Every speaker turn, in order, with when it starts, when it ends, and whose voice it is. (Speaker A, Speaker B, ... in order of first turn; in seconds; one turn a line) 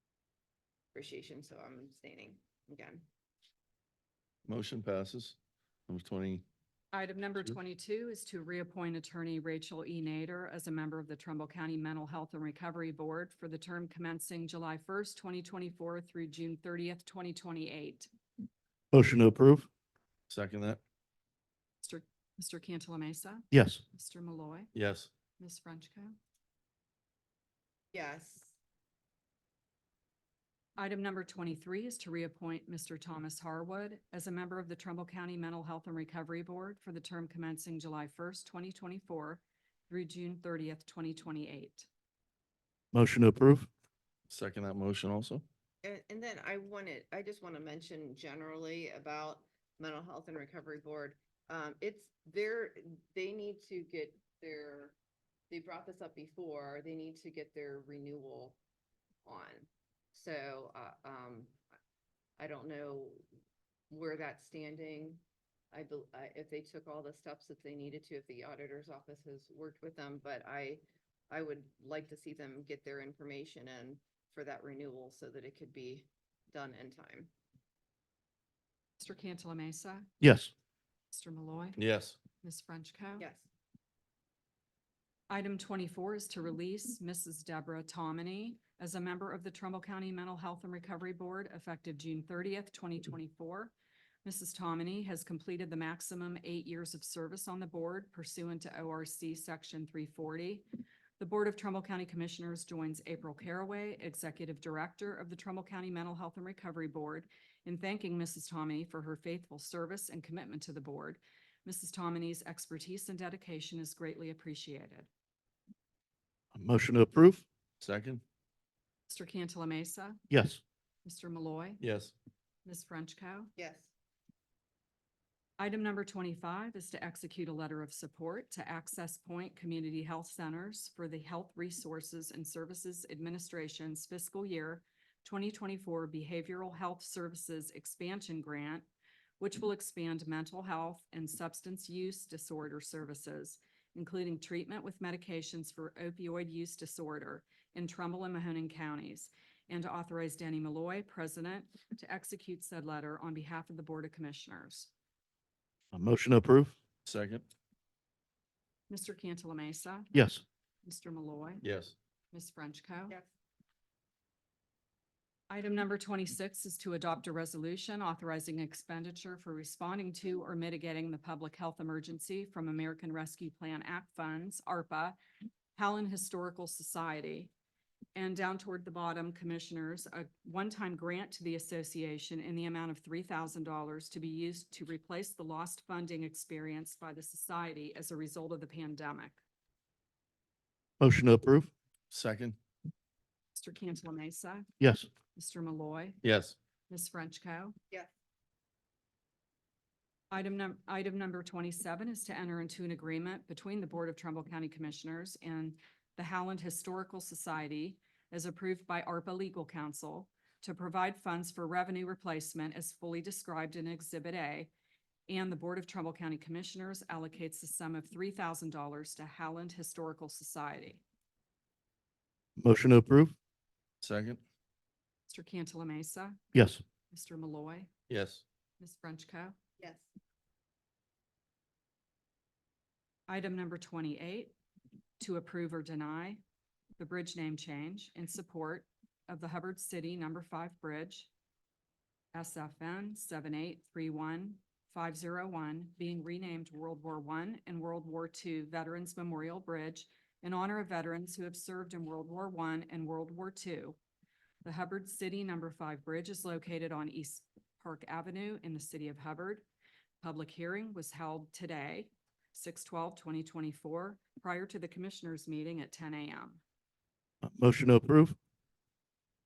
Speaker A: 0.9-3.0
Speaker B: 4.5-5.4
Speaker B: 5.9-6.4
Speaker C: 6.9-18.1
Speaker D: 18.9-19.7
Speaker B: 20.3-20.8
Speaker C: 21.8-24.7
Speaker D: 23.5-23.8
Speaker B: 24.7-25.1
Speaker C: 25.4-26.2
Speaker A: 27.9-28.6
Speaker C: 30.8-41.9
Speaker D: 42.9-43.7
Speaker B: 44.3-45.4
Speaker A: 45.8-55.0
Speaker A: 55.5-58.6
Speaker A: 59.2-61.6
Speaker A: 62.4-63.2
Speaker A: 63.9-77.3
Speaker C: 79.0-80.1
Speaker D: 80.2-80.5
Speaker C: 81.1-81.8
Speaker B: 81.8-82.2
Speaker C: 82.4-83.3
Speaker A: 83.2-83.5
Speaker C: 85.3-93.7
Speaker C: 94.2-100.7
Speaker C: 101.2-115.1
Speaker D: 116.5-117.4
Speaker B: 117.8-118.2
Speaker C: 119.1-120.2
Speaker D: 120.3-120.6
Speaker C: 121.0-121.8
Speaker B: 121.8-122.1
Speaker C: 122.7-123.5
Speaker A: 123.6-123.9
Speaker C: 125.6-138.9
Speaker C: 139.4-154.9
Speaker D: 155.9-156.8
Speaker B: 157.1-157.4
Speaker C: 158.9-160.1
Speaker D: 160.1-160.4
Speaker C: 160.8-161.6
Speaker B: 161.6-161.9
Speaker C: 162.3-163.2
Speaker C: 165.5-175.2
Speaker C: 175.8-177.5
Speaker C: 178.2-189.4
Speaker D: 191.0-191.7
Speaker B: 192.1-192.6
Speaker C: 193.6-194.7
Speaker D: 194.8-195.1
Speaker C: 195.3-196.2
Speaker B: 196.2-196.6
Speaker C: 196.9-197.8
Speaker C: 200.3-214.7
Speaker C: 215.3-221.0
Speaker D: 222.6-223.3
Speaker B: 224.0-224.4
Speaker C: 225.3-226.5
Speaker D: 226.5-226.8
Speaker C: 227.1-227.9
Speaker B: 228.1-228.4
Speaker C: 228.8-229.6
Speaker A: 229.8-230.1
Speaker C: 233.3-234.5
Speaker C: 235.2-236.4
Speaker C: 237.0-241.3
Speaker C: 242.3-254.0
Speaker C: 254.6-259.6
Speaker C: 260.2-266.6
Speaker D: 267.4-268.4